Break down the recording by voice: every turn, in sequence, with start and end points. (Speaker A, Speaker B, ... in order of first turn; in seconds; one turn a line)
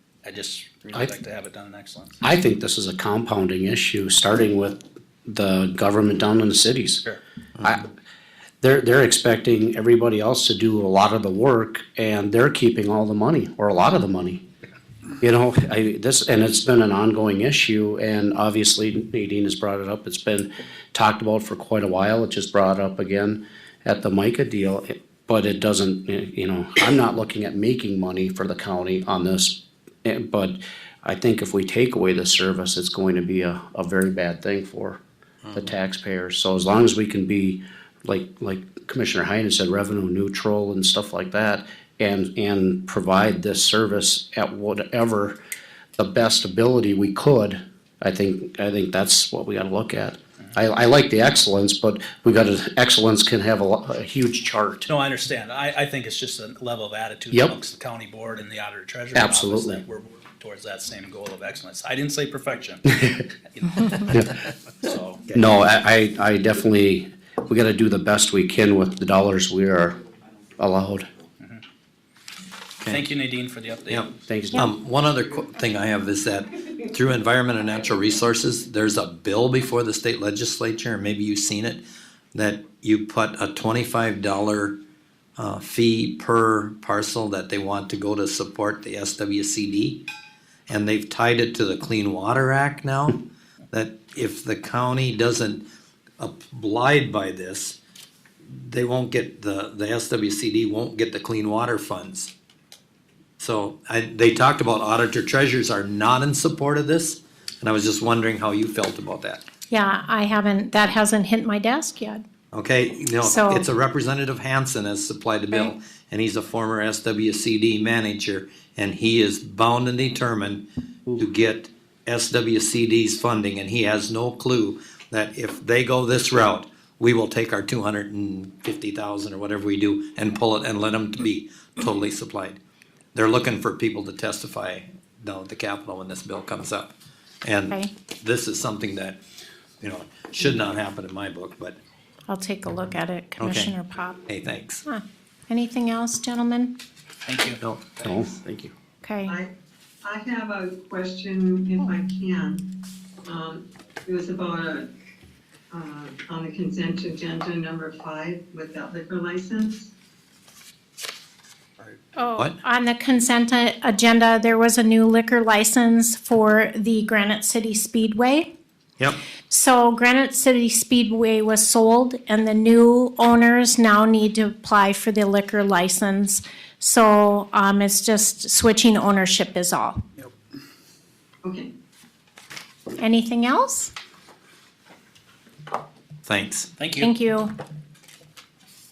Speaker A: 0.2-2.2
Speaker B: 2.2-7.0
Speaker C: 7.5-7.8
Speaker B: 7.6-7.9
Speaker B: 8.6-14.4
Speaker B: 15.2-35.0
Speaker C: 35.4-35.7
Speaker B: 35.5-45.4
Speaker B: 46.0-54.9
Speaker A: 54.9-63.0
Speaker B: 59.1-59.8
Speaker A: 63.5-65.3
Speaker B: 65.3-70.0
Speaker B: 70.6-71.1
Speaker C: 72.8-73.1
Speaker A: 72.9-74.1
Speaker C: 73.9-81.8
Speaker B: 74.3-74.7
Speaker C: 82.3-84.8
Speaker C: 85.4-90.0
Speaker C: 90.7-93.2
Speaker C: 93.7-95.6
Speaker C: 96.2-97.8
Speaker C: 98.4-102.3
Speaker C: 103.4-109.4
Speaker D: 109.7-112.2
Speaker C: 112.5-132.6
Speaker D: 113.2-113.7
Speaker C: 133.1-136.9
Speaker C: 137.4-139.2
Speaker C: 139.8-141.8
Speaker D: 142.3-144.2
Speaker C: 143.4-143.8
Speaker C: 144.3-144.8
Speaker D: 144.8-146.8
Speaker A: 147.2-147.6
Speaker C: 147.6-148.2
Speaker B: 148.0-148.7
Speaker D: 149.0-149.4
Speaker E: 149.2-149.5
Speaker E: 150.0-154.9
Speaker E: 155.7-159.9
Speaker D: 162.2-168.5
Speaker D: 169.5-180.0
Speaker E: 181.4-181.7
Speaker D: 183.0-183.9
Speaker C: 186.2-186.7
Speaker A: 186.8-187.1
Speaker D: 187.0-187.5